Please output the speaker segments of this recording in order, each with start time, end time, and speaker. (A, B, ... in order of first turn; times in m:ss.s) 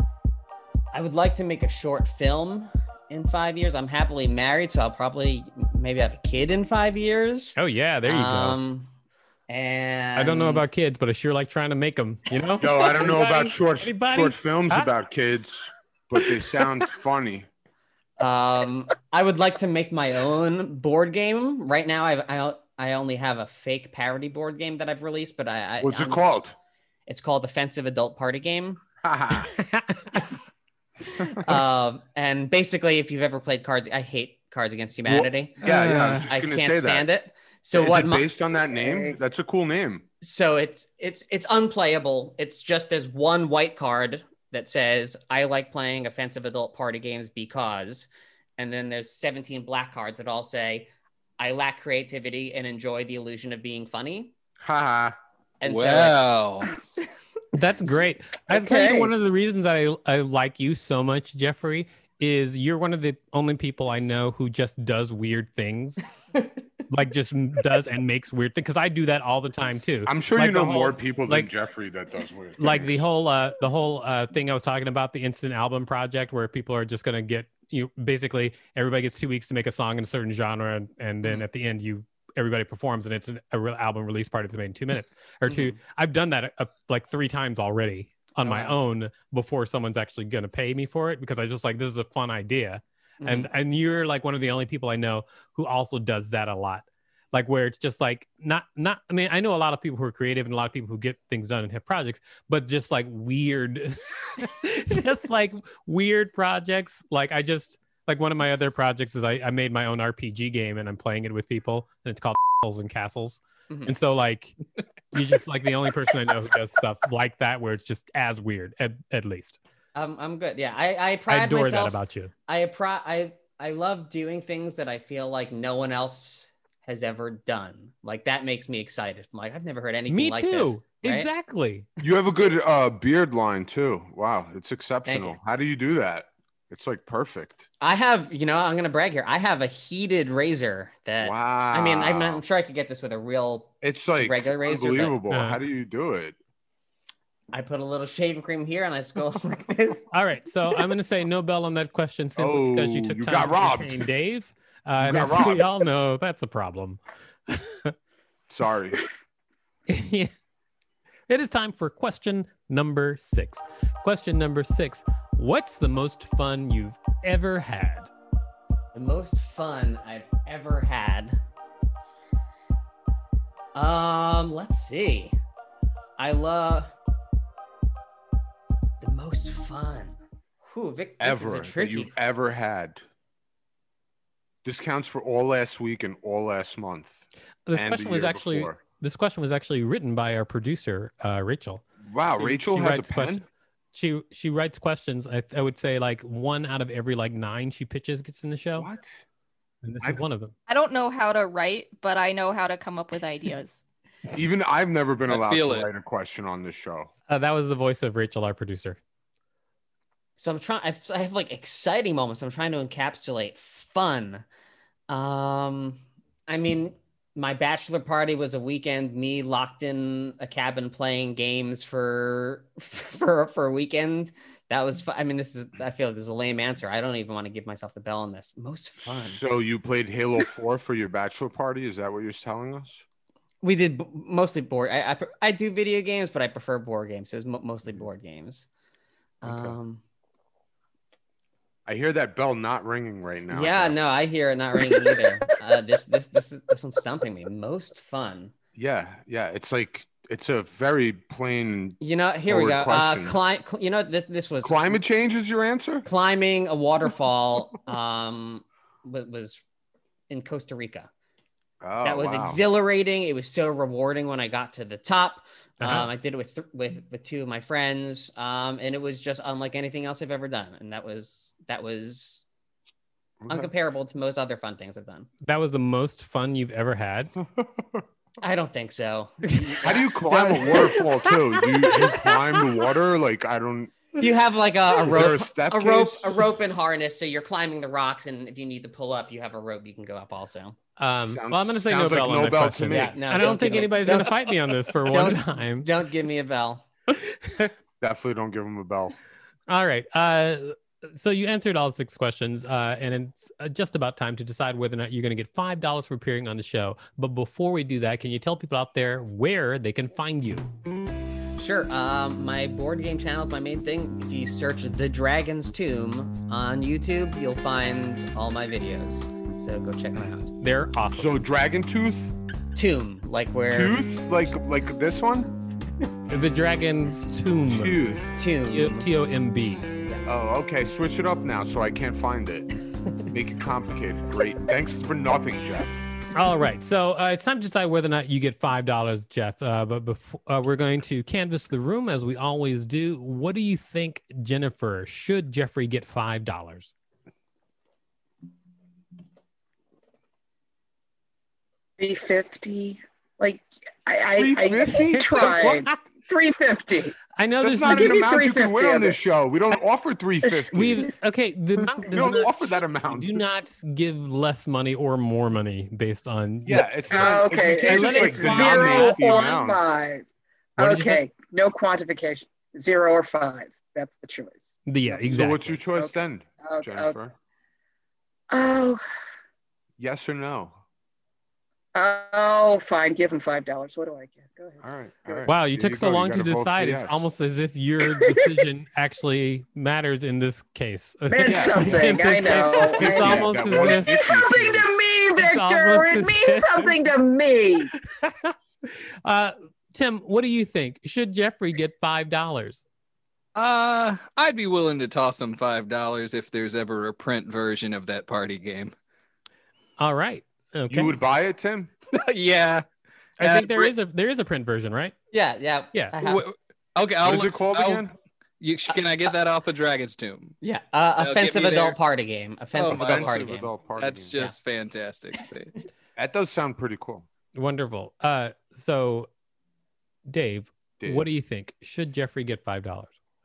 0:00.9-0:08.9 A
0:07.6-0:08.6 B
0:09.5-0:10.6 A
0:10.2-0:14.9 B
0:12.6-0:17.5 C
0:18.2-0:26.2 A
0:25.8-0:26.6 C
0:27.1-0:28.8 A
0:29.0-0:29.5 C
0:29.5-0:30.0 B
0:31.1-0:35.6 A
0:35.1-0:37.1 C
0:35.6-0:36.3 D
0:36.1-0:38.3 A
0:37.7-0:40.0 C
0:38.8-0:39.2 E
0:40.2-0:54.3 A
0:54.6-0:55.2 C
0:55.6-0:57.0 A
0:55.6-0:56.8 D
0:57.5-1:06.0 B
0:58.5-0:59.1 E
1:06.9-1:11.5 B
1:10.0-1:13.0 C
1:12.6-1:54.5 B
1:25.4-1:25.8 A
1:28.4-1:28.7 A
1:33.2-1:33.5 A
1:55.1-1:59.6 B
1:59.9-2:11.3 A
2:01.3-2:02.3 B
2:10.1-2:11.9 B
2:12.0-2:17.6 C
2:15.0-2:15.4 A
2:17.8-2:25.2 A
2:21.2-2:22.4 C
2:23.8-2:26.4 C
2:25.3-2:25.6 B
2:27.5-2:30.1 A
2:30.1-2:37.9 B
2:32.4-2:34.1 C
2:35.0-2:35.7 C
2:38.5-2:39.0 C
2:39.9-2:40.3 B
2:41.3-2:48.1 B
2:48.9-2:51.4 A
2:53.7-2:55.3 A
2:56.2-2:56.9 A
2:59.0-3:02.1 A
3:01.2-3:03.0 C
3:04.6-3:08.8 C
3:07.7-3:11.8 B
3:12.0-3:13.4 C
3:12.4-3:18.9 B
3:18.8-3:19.2 C
3:19.8-3:20.5 B
3:20.7-3:23.8 F
3:24.3-3:27.1 C
3:25.3-3:25.9 D
3:27.3-3:29.0 B
3:30.4-3:34.4 A
3:35.1-3:49.4 A
3:49.0-3:53.0 C
3:53.6-3:58.7 A
3:59.4-4:00.0 A
3:59.4-3:59.8 C
4:01.8-4:03.9 C
4:03.5-4:08.5 A
4:08.7-4:13.4 C
4:12.0-4:15.0 A
4:14.6-4:16.0 C
4:16.0-4:19.6 A
4:20.3-4:21.1 A
4:21.8-4:22.6 C
4:22.0-4:32.4 A
4:25.8-4:26.1 B
4:33.4-4:33.7 C
4:33.5-4:35.3 A
4:35.4-4:37.3 B
4:37.6-4:38.0 C
4:38.4-4:42.4 A
4:39.8-4:44.1 C
4:44.2-4:50.8 A
4:45.0-4:46.4 C
4:51.0-4:55.9 B
4:51.3-4:53.2 C
4:52.9-4:54.4 A
4:55.1-4:56.8 A
4:57.3-4:57.7 B
4:58.0-4:59.1 C
4:59.7-5:10.7 B
5:11.6-5:20.5 A
5:20.6-5:21.4 B
5:21.1-5:22.3 C
5:22.7-5:24.5 A
5:23.7-5:25.5 C
5:26.3-5:28.0 B
5:27.7-5:28.4 C
5:28.4-5:29.1 A
5:28.6-5:29.8 B
5:30.2-5:32.7 C
5:33.2-5:36.1 C
5:36.3-5:46.9 B
5:52.0-5:57.2 E
5:54.3-5:55.7 C
5:54.9-5:56.1 B
5:57.4-5:58.2 B
5:57.6-6:01.1 C
5:57.8-5:59.2 E
6:00.7-6:09.5 B
6:02.1-6:03.4 C
6:06.6-6:09.8 C
6:06.7-6:10.2 E
6:10.8-6:15.2 E
6:10.8-6:11.2 B
6:14.9-6:15.8 B
6:15.2-6:17.3 C
6:15.9-6:17.2 E
6:18.5-6:19.0 E
6:20.0-6:20.8 C
6:21.9-6:25.5 E
6:24.8-6:27.2 C
6:25.4-6:34.2 B
6:31.3-6:37.9 E
6:31.5-6:35.0 C
6:35.4-6:36.9 B
6:38.0-6:42.8 B
6:43.5-6:48.9 D
6:50.0-6:51.1 B
6:50.9-6:51.9 C
6:52.1-6:52.8 D
6:53.4-6:55.1 B
6:53.4-6:53.9 D
6:55.3-6:56.5 A
6:56.2-6:58.0 D
6:57.2-6:58.1 C
6:58.6-7:00.5 D
7:00.6-7:03.7 A
7:01.2-7:02.0 D
7:02.7-7:05.7 D
7:02.9-7:04.4 C
7:06.2-7:07.3 C
7:07.5-7:09.3 B
7:10.3-7:13.1 B
7:11.0-7:11.3 C